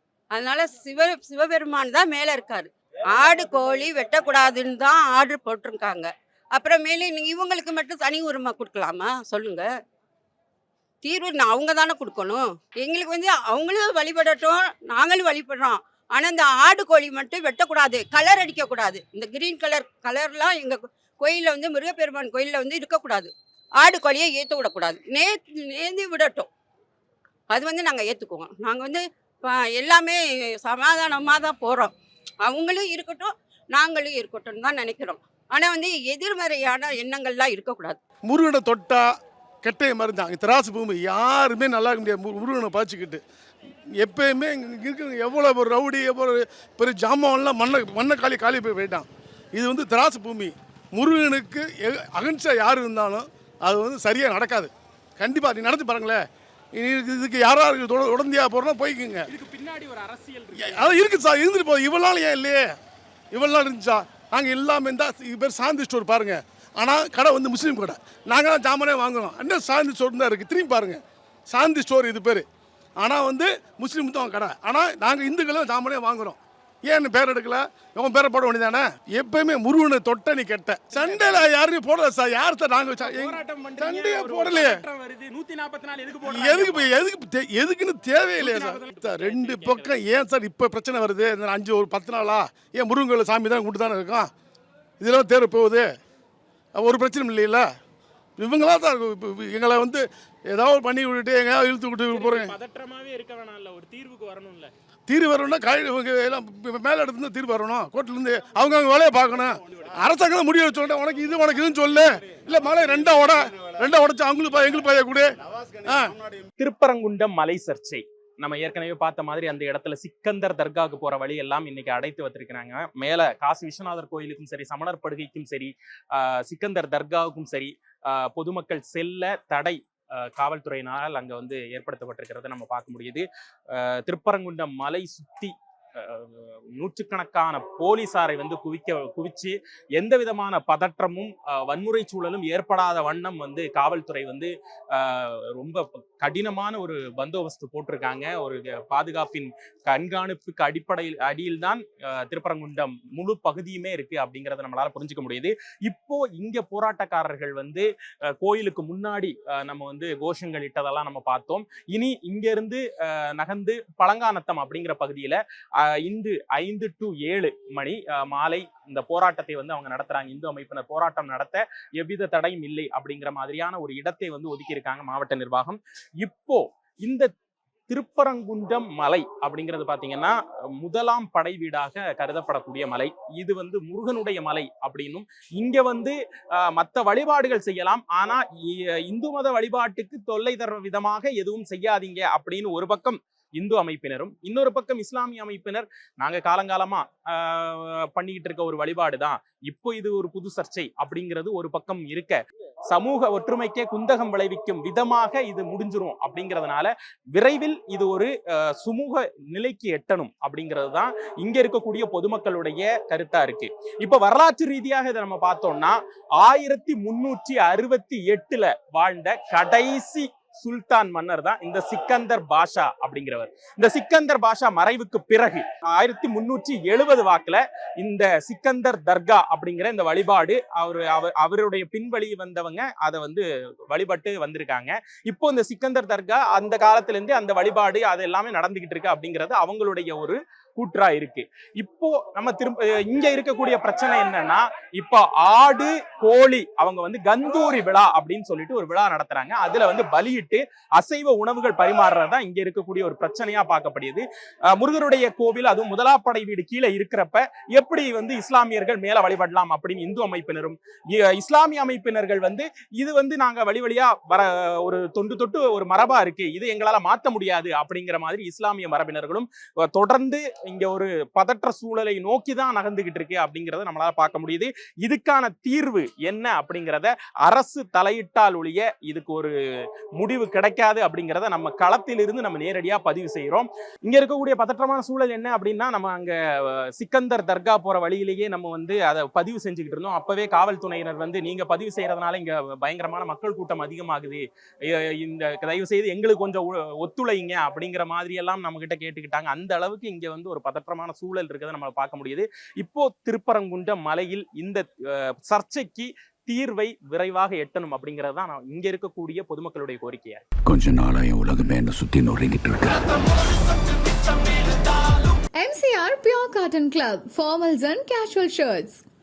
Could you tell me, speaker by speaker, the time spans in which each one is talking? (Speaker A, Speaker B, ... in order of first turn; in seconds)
Speaker A: 0.3-9.7, 11.0-26.5, 27.5-38.0
Speaker B: 38.3-39.0, 39.6-43.2, 44.0-56.2, 56.8-59.2, 60.5-62.6, 63.3-72.5, 73.0-84.8, 86.3-94.3, 95.0-95.9, 96.8-97.7, 98.4-102.5, 105.1-115.3, 115.8-116.2
Speaker C: 59.3-61.0, 81.0-81.5, 83.0-86.9, 88.4-90.0, 102.1-104.7, 116.6-157.9, 158.4-177.3, 177.9-279.5, 280.2-310.4
Speaker D: 310.7-313.1
Speaker E: 315.6-319.0